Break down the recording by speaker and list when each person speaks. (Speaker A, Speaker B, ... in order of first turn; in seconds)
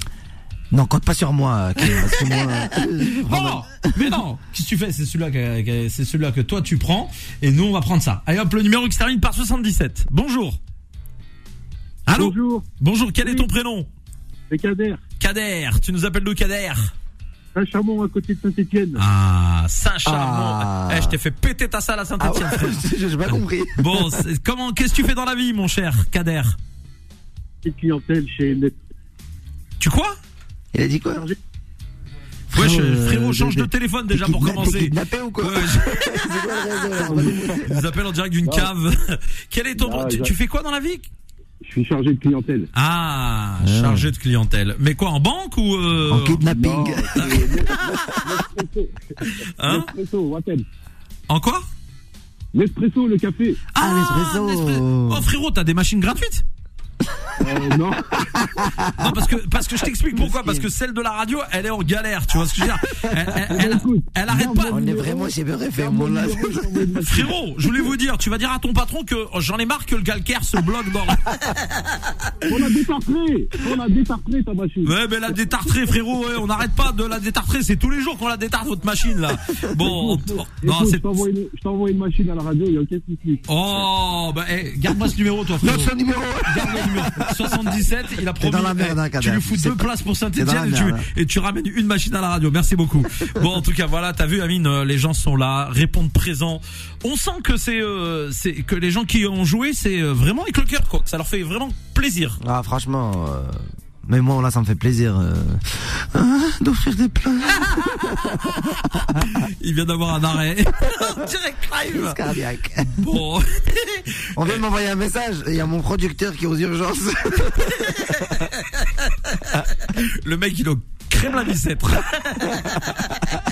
Speaker A: 0.7-4.2, 20.1-21.2, 22.2-24.2, 30.7-31.3, 32.5-37.8, 43.6-44.1, 46.1-47.7, 53.8-55.3, 58.3-59.2, 60.1-60.7, 64.7-67.3, 85.6-87.7, 88.4-91.1, 102.4-109.4, 111.9-113.0, 114.3-118.5
Speaker B: 1.8-10.6, 12.1-13.9, 15.2-16.9, 19.0-26.6, 29.8-30.2, 32.5-36.3, 37.5-41.1, 42.8-46.5, 47.1-48.4, 49.4-49.9, 51.3-51.7, 53.8-56.5, 59.0-64.8, 67.0-71.3, 74.8-81.2, 83.5-102.4, 109.0-112.2, 112.8-114.6, 119.5-123.0
Speaker C: 12.1-12.7, 14.5-15.0, 17.6-19.0, 27.6-28.8, 31.1-31.4, 37.0-37.6, 38.5-38.7, 39.8-40.3, 41.6-42.7, 46.5-48.9, 49.7-50.6, 52.6-53.4, 57.4-58.2, 63.5-65.2, 65.8-67.3, 72.5-74.9, 79.8-83.4